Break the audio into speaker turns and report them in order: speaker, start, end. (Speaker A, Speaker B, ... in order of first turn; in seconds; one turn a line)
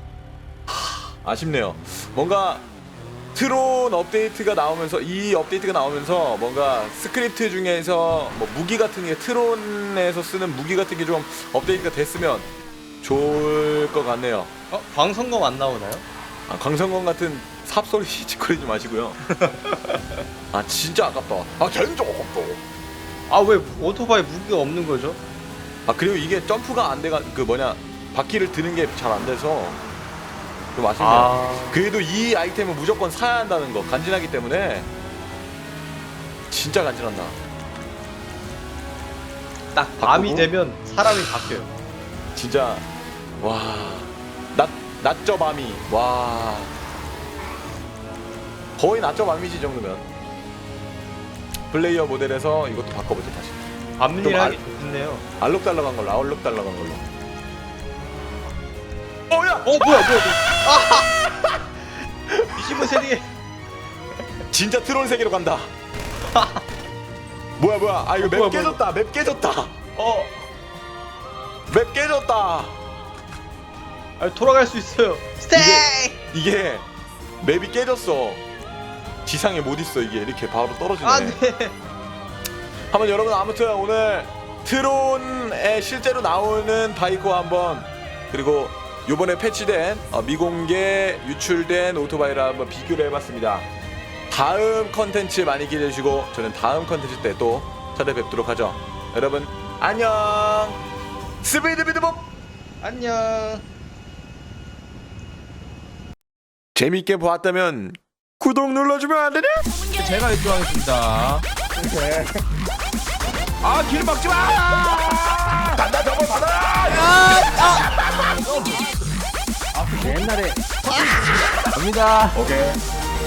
Speaker A: 0.7-2.7
Speaker A: 3.3-12.5
Speaker A: 13.0-14.5
Speaker B: 14.7-16.1
Speaker A: 16.5-19.2
Speaker B: 19.3-20.0
Speaker A: 20.5-22.6
Speaker B: 23.3-25.2
Speaker A: 25.9-29.8
Speaker A: 30.8-34.9
Speaker B: 31.0-31.8
Speaker A: 36.5-37.4
Speaker B: 39.7-41.7
Speaker A: 40.0-40.5
Speaker A: 42.4-42.9
Speaker A: 43.4-46.7
Speaker A: 48.8-50.1
Speaker A: 51.7-53.6
Speaker B: 54.0-55.2
Speaker A: 54.2-54.6
Speaker A: 55.4-57.0
Speaker A: 59.3-61.1
Speaker B: 59.6-61.1
Speaker A: 62.3-62.9
Speaker B: 62.5-63.3
Speaker A: 64.5-65.7
Speaker B: 66.3-66.6
Speaker A: 67.6-69.7
Speaker B: 68.2-68.8
Speaker B: 70.0-70.3
Speaker A: 71.7-72.8
Speaker B: 74.2-76.2
Speaker A: 75.5-76.9
Speaker A: 77.4-78.4
Speaker A: 79.2-81.4
Speaker B: 81.0-81.8
Speaker A: 82.9-93.7
Speaker A: 94.3-100.8
Speaker A: 101.4-102.3
Speaker B: 102.8-103.7
Speaker A: 106.8-109.7
Speaker C: 109.9-111.4
Speaker C: 112.0-112.2
Speaker C: 113.6-115.8
Speaker A: 114.7-114.9
Speaker A: 115.8-117.0
Speaker C: 116.8-118.8
Speaker C: 119.8-121.1
Speaker C: 121.6-122.4
Speaker A: 122.3-122.8